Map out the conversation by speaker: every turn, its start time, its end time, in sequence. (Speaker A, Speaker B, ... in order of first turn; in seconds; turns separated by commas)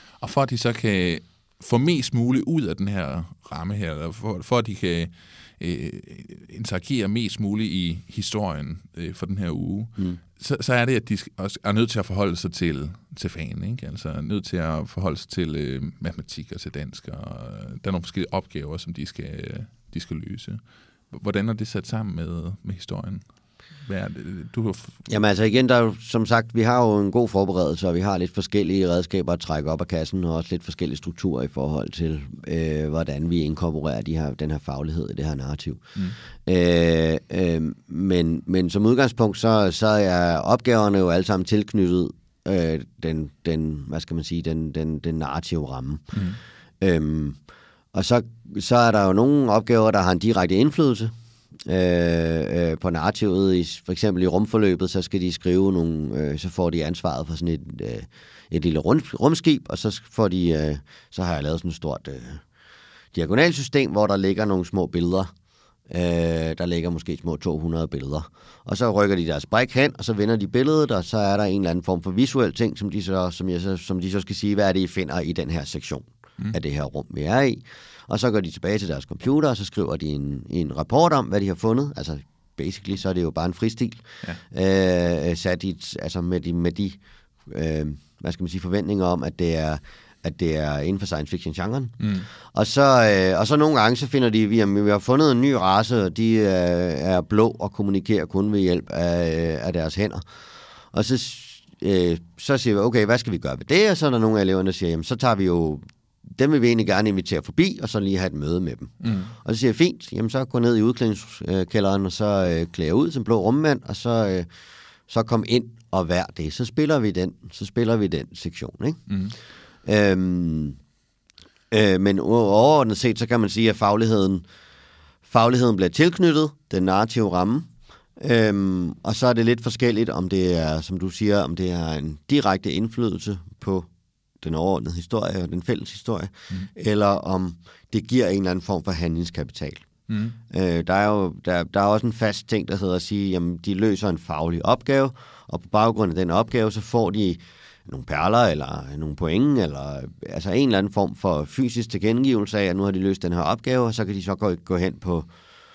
Speaker A: 0.2-23.2, Speaker A: 23.8-25.0, Speaker B: 25.1-46.1, Speaker A: 46.1-46.4, Speaker B: 46.8-47.4, Speaker B: 47.9-51.1, Speaker B: 51.6-62.4, Speaker B: 63.1-65.3, Speaker B: 65.9-114.5, Speaker A: 92.0-92.3, Speaker A: 109.0-109.3, Speaker B: 115.1-119.0, Speaker A: 119.1-119.3, Speaker B: 119.8-120.8, Speaker B: 121.7-124.4, Speaker B: 125.2-133.9, Speaker B: 134.4-139.8, Speaker A: 140.1-140.4, Speaker B: 140.5-155.3